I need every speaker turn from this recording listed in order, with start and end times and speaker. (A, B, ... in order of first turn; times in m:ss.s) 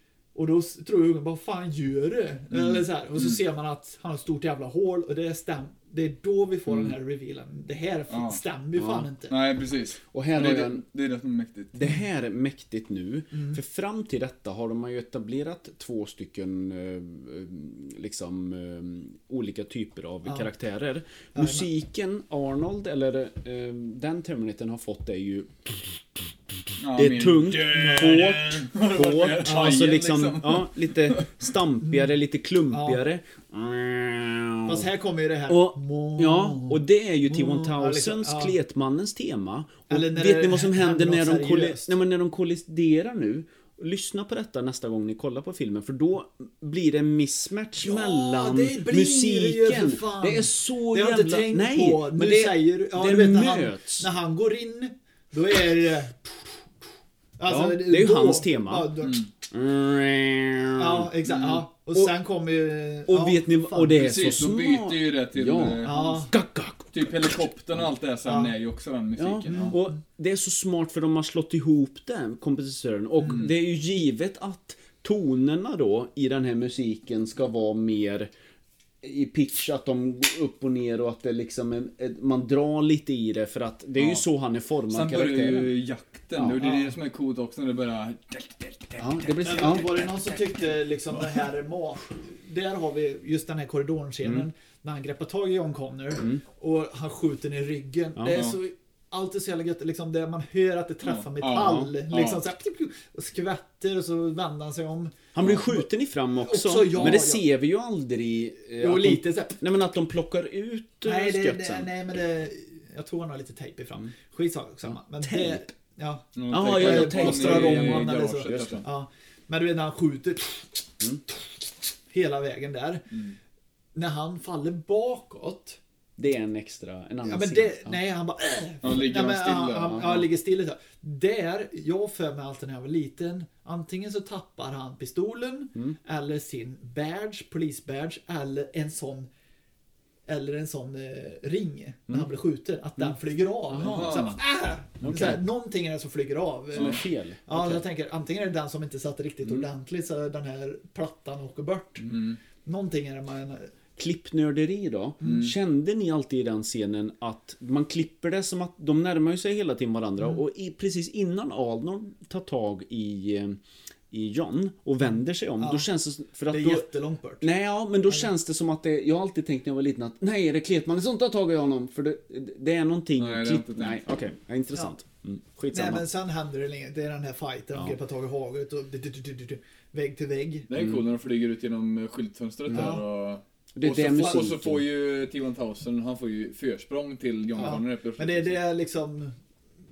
0:00.4-0:09.4 A
0:02.5-0:02.8 B
0:06.7-0:07.0 C
0:08.1-0:08.4 B
0:08.8-0:09.1 C
0:09.3-0:11.9 B
0:10.1-0:10.8 C
0:11.8-0:34.9 C
0:13.3-0:13.6 A
0:21.4-0:21.7 A
0:26.8-0:31.5 B
0:27.7-0:28.5 A
0:29.4-0:29.9 A
0:31.8-0:32.1 A
0:32.7-0:33.0 A
0:34.6-0:38.6 A
0:35.5-0:54.1 C
0:39.9-0:41.9 A
0:47.8-0:56.3 A
0:57.4-0:59.3 A
0:57.5-1:01.1 C
0:59.0-0:59.3 B
1:00.8-1:04.0 A
1:01.3-1:01.6 B
1:03.1-1:07.4 C
1:03.9-1:06.2 B
1:05.8-1:06.3 A
1:06.9-1:09.8 B
1:08.2-1:08.5 A
1:09.2-1:18.3 C
1:19.0-1:25.7 C
1:24.0-1:24.2 B
1:24.9-1:29.6 B
1:26.4-1:26.6 C
1:26.5-1:27.0 A
1:29.0-1:30.6 C
1:29.4-1:47.4 A
1:31.2-1:31.4 B
1:38.2-1:38.4 C
1:41.0-1:42.4 B
1:41.5-1:41.9 C
1:45.3-1:51.9 C
1:47.0-1:47.2 B
1:48.8-1:49.6 A
1:51.0-2:03.1 A
1:55.2-1:55.6 C
1:56.4-1:58.8 B
1:56.5-1:58.8 C
2:03.1-2:03.4 B
2:04.0-2:05.8 A
2:06.2-2:08.0 C
2:07.2-2:19.3 A
2:08.8-2:10.3 B
2:20.3-2:32.1 A
2:23.7-2:24.4 C
2:23.8-2:24.4 B
2:25.0-2:25.4 C
2:26.7-2:27.8 C
2:32.0-2:32.4 B
2:32.6-2:33.7 A
2:34.0-2:46.9 C
2:35.2-2:35.5 A
2:35.2-2:35.5 B
2:45.6-2:45.9 A
2:46.5-2:47.5 A
2:47.4-2:56.0 C
2:53.2-2:54.0 B
2:55.7-3:00.7 A
3:00.7-3:08.6 B
3:00.8-3:01.0 C
3:02.7-3:03.0 C
3:02.7-3:03.0 A
3:03.8-3:04.9 C
3:07.6-3:09.3 A